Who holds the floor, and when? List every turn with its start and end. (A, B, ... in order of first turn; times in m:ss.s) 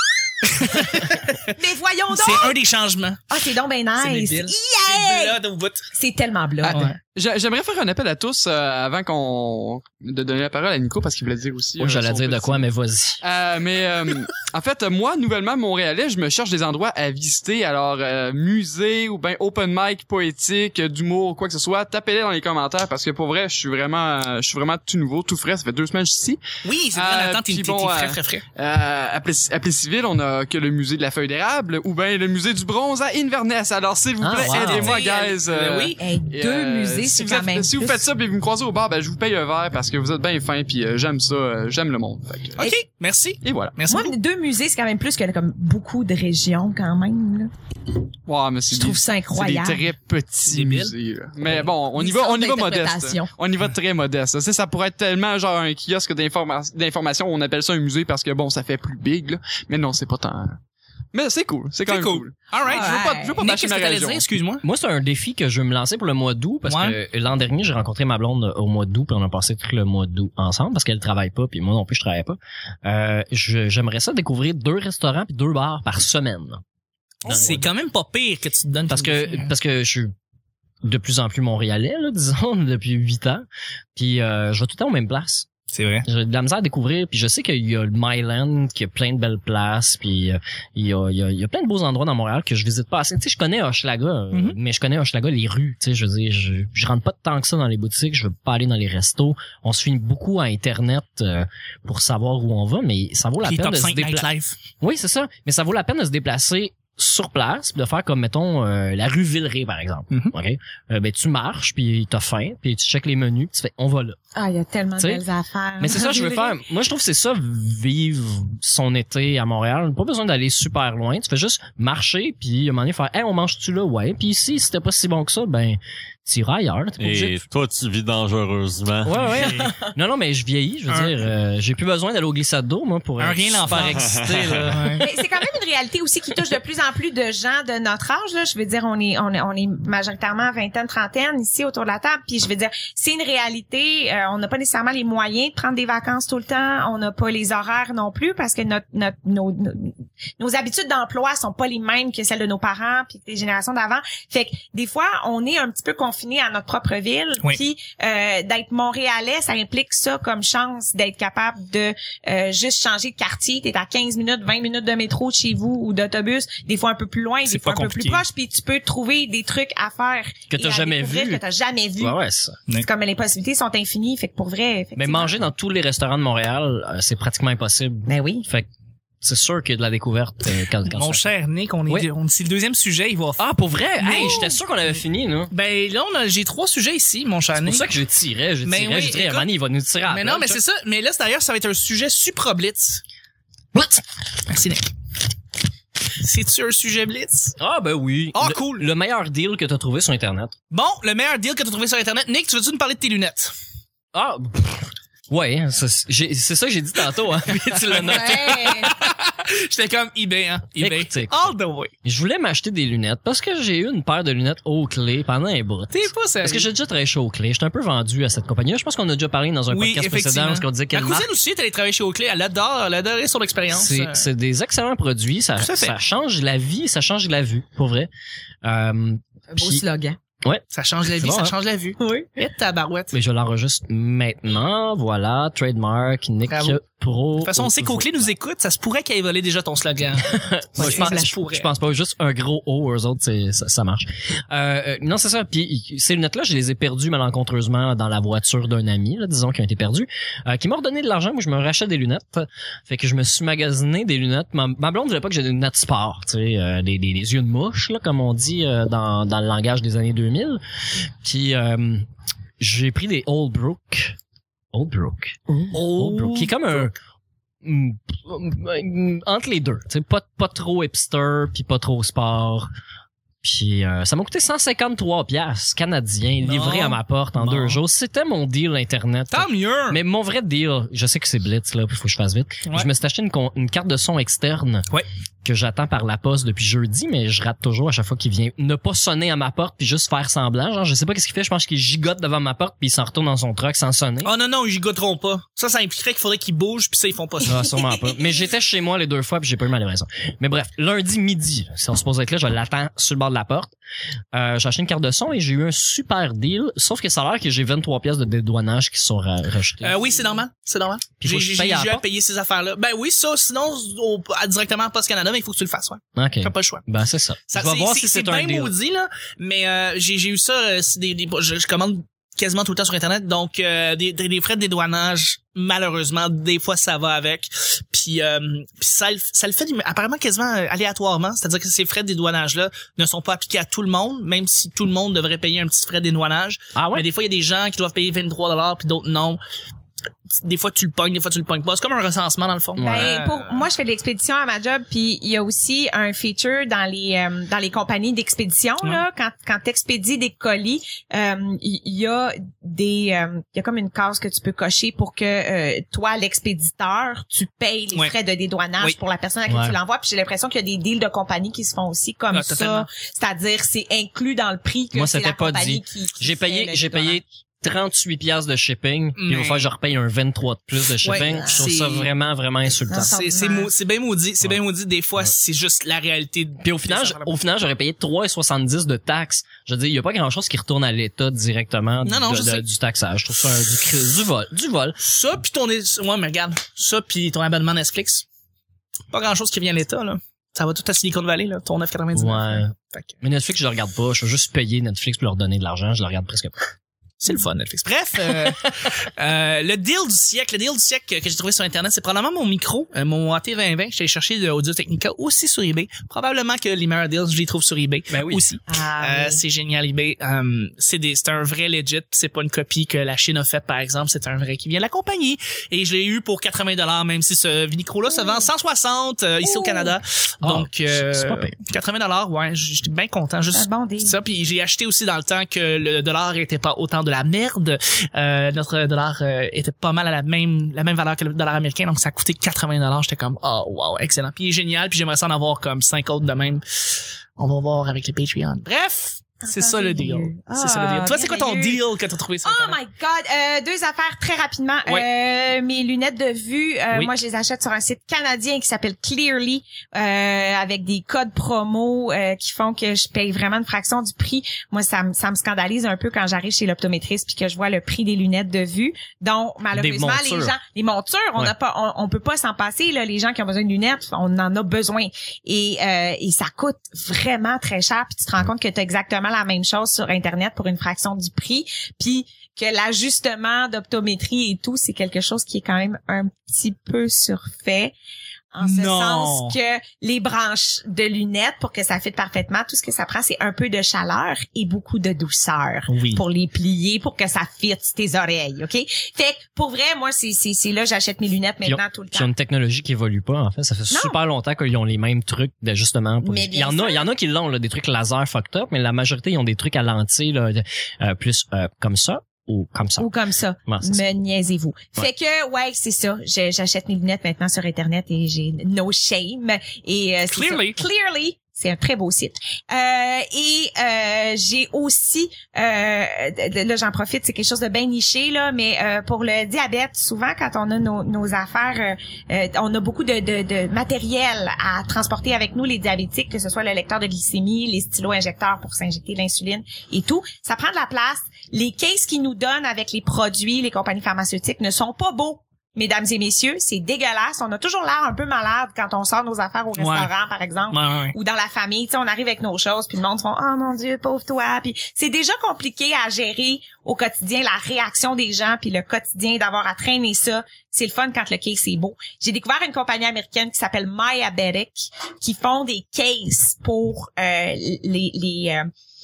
0:00.4-0:01.5 A
0:01.5-0:02.6 B
0:02.1-0:03.2 A
0:03.3-0:05.4 B
0:04.0-0:05.8 A
0:05.9-0:06.9 B
0:06.7-0:07.0 A
0:07.1-0:12.6 C
0:11.8-0:13.2 D
0:13.2-0:26.4 C
0:26.6-0:28.4 A
0:26.9-0:42.6 C
0:34.2-0:35.0 D
0:34.3-0:36.0 A
0:36.0-0:38.0 B
0:42.6-0:44.1 A
0:43.4-0:43.7 C
0:43.9-0:47.5 B
0:48.3-1:00.6 C
0:48.7-0:49.9 B
0:50.4-0:50.9 A
0:51.5-0:53.3 B
1:01.1-1:04.2 C
1:01.9-1:04.6 A
1:02.6-1:03.4 B
1:04.6-1:16.6 D
1:06.6-1:07.0 A
1:17.2-1:19.5 A
1:17.2-1:17.7 D
1:18.9-1:20.1 D
1:20.8-1:23.4 D
1:24.0-1:25.5 D
1:25.7-1:26.0 A
1:26.0-1:44.3 D
1:34.3-1:34.6 A
1:43.4-1:44.5 A
1:44.8-1:54.2 D
1:54.3-1:56.6 B
1:55.0-1:55.2 D
1:55.8-2:07.4 D
2:07.0-2:09.5 E
2:09.0-2:15.0 D
2:09.2-2:09.6 A
2:10.9-2:11.2 A
2:13.2-2:15.0 A
2:14.0-2:14.7 E
2:15.0-2:52.2 B
2:47.5-2:48.2 A
2:50.5-2:51.4 D
2:52.0-2:52.6 D
2:52.8-2:55.4 B
2:55.0-2:58.7 D
2:58.1-2:58.4 B
2:59.2-3:01.2 D
3:00.9-3:03.4 A
3:03.4-3:05.5 D
3:04.0-3:04.6 A
3:05.5-3:07.8 A
3:07.6-3:10.6 D
3:08.6-3:09.5 A
3:10.1-3:13.0 A
3:13.7-3:14.0 D
3:14.5-3:14.9 A
3:16.2-3:17.6 A
3:17.6-3:20.5 D
3:18.3-3:18.9 A
3:20.7-3:23.5 A
3:24.1-3:28.6 D
3:27.9-3:31.9 A
3:28.0-3:28.9 B
3:30.8-3:41.3 D
3:35.9-3:36.7 A
3:39.7-3:44.2 A
3:43.7-3:48.1 D
3:45.6-3:45.9 A
3:48.6-3:49.8 D
3:49.5-3:50.2 B
3:50.4-3:51.5 D
3:50.7-3:53.1 A
3:52.0-3:52.3 B
3:53.1-3:58.3 D
3:56.5-3:56.8 A
3:57.4-4:01.7 A
4:00.3-4:20.6 D
4:00.8-4:01.2 B
4:21.2-4:22.1 D
4:22.6-4:24.2 D
4:24.7-4:26.9 D
4:25.7-4:26.9 A
4:27.6-4:32.7 D
4:33.4-4:44.9 D
4:36.4-4:37.8 A
4:39.3-4:40.0 A
4:45.4-4:54.3 D
4:54.2-4:57.6 A
4:57.5-5:03.7 D
4:57.8-4:58.4 B
5:04.3-5:10.3 D
5:09.8-5:16.8 A
5:11.2-5:12.0 D
5:16.2-5:18.7 D
5:17.5-5:39.4 A
5:36.7-5:37.0 D
5:40.4-5:43.6 A
5:42.8-5:43.1 D
5:42.8-6:07.2 B
5:59.5-5:59.8 D
6:02.3-6:02.9 A
6:04.9-6:13.2 D
6:09.2-6:09.7 A
6:11.0-6:12.1 A
6:11.2-6:11.7 B
6:12.9-6:13.7 B
6:13.0-6:17.3 A
6:16.6-6:25.0 D
6:22.0-6:22.6 A
6:25.0-6:28.2 A
6:29.1-6:33.2 A
6:32.1-6:36.5 D
6:37.2-7:16.6 A
6:48.1-6:48.4 D
6:48.7-6:49.4 B
6:58.1-6:58.5 B
6:59.4-7:00.0 B
7:00.4-7:01.5 D
7:03.5-7:04.2 B
7:17.4-7:22.8 A
7:19.4-7:21.8 B
7:22.4-7:57.9 B
7:39.7-7:40.5 D
7:58.5-8:12.3 B
7:58.6-7:59.6 A
8:05.9-8:06.2 A
8:11.6-8:23.1 D
8:13.9-8:14.2 B
8:16.2-8:17.1 B
8:23.0-9:18.7 B
8:23.7-8:24.0 D
8:30.3-8:30.8 A
8:59.8-9:00.1 A
9:00.7-9:01.2 A